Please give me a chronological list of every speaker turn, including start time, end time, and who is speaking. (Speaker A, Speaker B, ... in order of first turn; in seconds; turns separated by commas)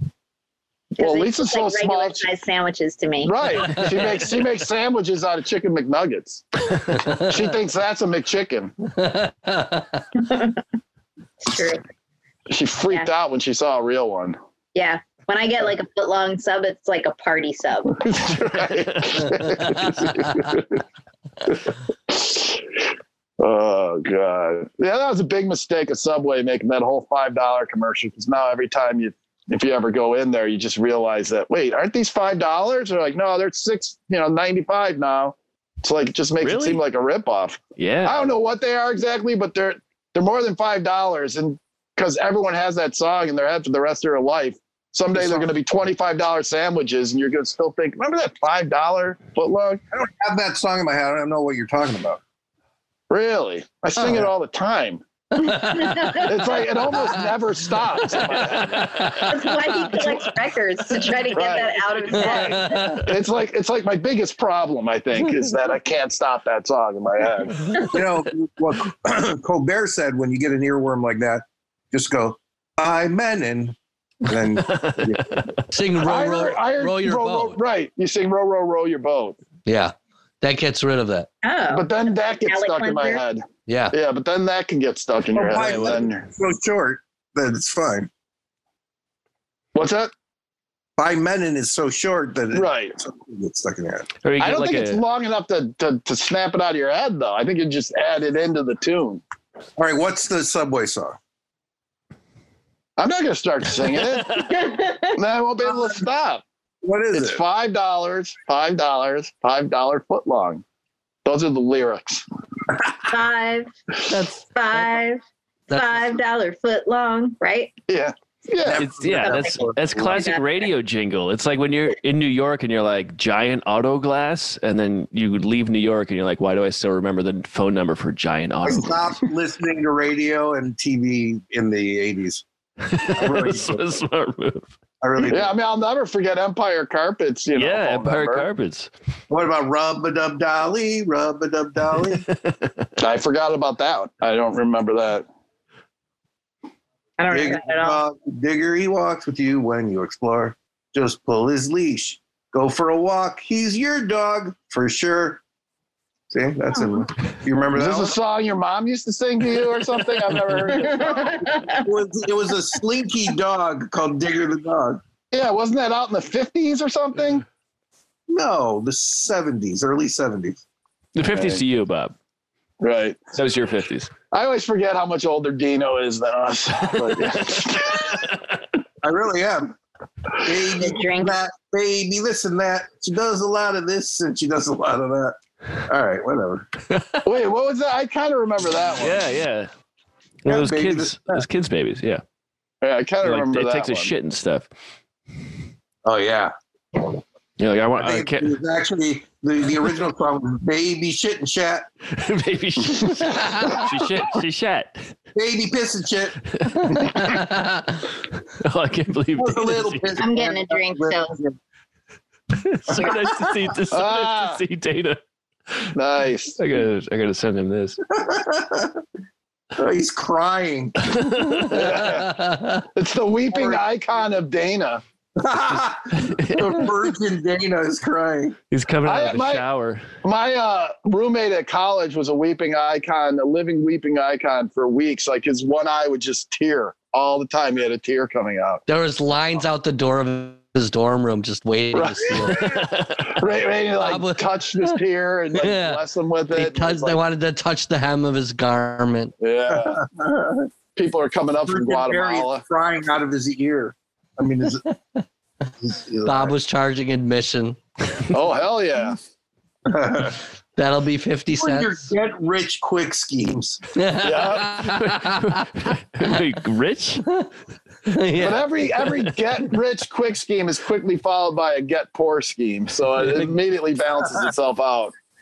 Speaker A: 0.9-3.8, Speaker B: 1.0-2.2, Speaker B: 3.2-8.8, Speaker C: 8.9-10.0, Speaker A: 10.2-10.6, Speaker A: 11.4-11.8, Speaker B: 12.5-14.4, Speaker A: 14.8-18.1, Speaker B: 18.0-20.8, Speaker B: 21.4-22.8, Speaker B: 23.4-49.8, Speaker D: 36.4-36.8, Speaker D: 37.8-38.2, Speaker E: 49.9-52.2, Speaker B: 53.1-55.0, Speaker C: 55.4-56.2, Speaker A: 55.6-56.2, Speaker B: 56.1-59.5, Speaker C: 58.1-59.4, Speaker A: 59.1-63.0, Speaker B: 61.3-67.8, Speaker C: 62.2-63.1, Speaker E: 67.8-75.4, Speaker D: 74.6-75.7, Speaker C: 75.7-77.6, Speaker B: 76.0-79.4, Speaker C: 79.7-81.3, Speaker A: 81.4-83.2, Speaker B: 81.7-86.2, Speaker C: 83.7-83.9, Speaker E: 85.3-88.1, Speaker D: 85.6-85.9, Speaker B: 89.8-90.1, Speaker E: 91.0-94.1, Speaker B: 92.5-93.0, Speaker D: 94.2-95.0, Speaker B: 94.4-99.2, Speaker E: 99.8-101.2, Speaker B: 103.0-106.4, Speaker A: 104.5-105.1, Speaker E: 106.8-107.4, Speaker B: 107.1-110.6, Speaker B: 111.2-112.2, Speaker A: 113.1-113.7, Speaker C: 114.1-114.5, Speaker A: 114.5-117.7, Speaker B: 117.9-118.9, Speaker E: 118.6-120.2, Speaker D: 118.8-129.2, Speaker A: 119.1-120.6, Speaker E: 128.6-132.4, Speaker D: 132.8-134.7, Speaker E: 133.1-134.0, Speaker E: 135.0-135.6, Speaker B: 135.3-138.5, Speaker D: 137.6-138.9, Speaker E: 139.3-142.2, Speaker D: 142.2-142.9, Speaker B: 143.0-145.3, Speaker A: 147.2-148.0, Speaker E: 147.3-155.4, Speaker E: 156.3-158.2, Speaker B: 157.8-161.6, Speaker A: 160.7-161.9, Speaker E: 161.4-165.0, Speaker B: 165.3-167.4, Speaker E: 168.3-170.6, Speaker D: 171.2-172.2, Speaker B: 171.3-171.6, Speaker B: 172.8-173.2, Speaker D: 173.3-174.1, Speaker B: 174.3-178.2, Speaker E: 179.0-179.8, Speaker E: 180.4-186.7, Speaker A: 180.8-181.4, Speaker D: 186.9-187.3, Speaker B: 187.2-189.2, Speaker D: 189.0-189.7, Speaker D: 190.4-192.2, Speaker E: 190.5-191.4, Speaker B: 192.8-194.1, Speaker D: 193.2-194.7, Speaker E: 196.1-197.1, Speaker D: 197.6-198.6, Speaker E: 198.0-201.9, Speaker D: 202.1-205.1, Speaker E: 205.3-206.4, Speaker D: 206.6-207.2, Speaker C: 207.0-207.8, Speaker D: 208.5-210.2, Speaker E: 209.4-211.6, Speaker A: 210.2-211.4, Speaker D: 212.5-215.2, Speaker B: 213.9-214.6, Speaker B: 215.9-216.6, Speaker D: 216.6-218.0, Speaker E: 218.1-219.0, Speaker E: 219.8-221.0, Speaker D: 221.0-221.9, Speaker B: 221.7-225.0, Speaker C: 222.4-222.8, Speaker E: 223.5-223.8, Speaker E: 225.4-228.6, Speaker D: 226.2-226.9, Speaker D: 228.7-230.0, Speaker B: 229.1-229.6, Speaker B: 230.2-238.8, Speaker C: 238.9-242.8, Speaker B: 241.9-247.2, Speaker D: 242.5-243.4, Speaker C: 244.0-245.0, Speaker C: 245.5-249.3, Speaker B: 249.4-250.0, Speaker E: 249.7-250.7, Speaker B: 250.9-252.6, Speaker E: 251.7-254.9, Speaker E: 255.8-256.6, Speaker C: 256.2-257.8, Speaker B: 258.3-259.2, Speaker E: 259.9-260.4, Speaker C: 260.8-262.0, Speaker E: 261.5-263.8, Speaker C: 263.9-265.6, Speaker B: 264.2-264.8, Speaker D: 264.8-267.3, Speaker C: 268.1-268.7, Speaker B: 268.4-275.1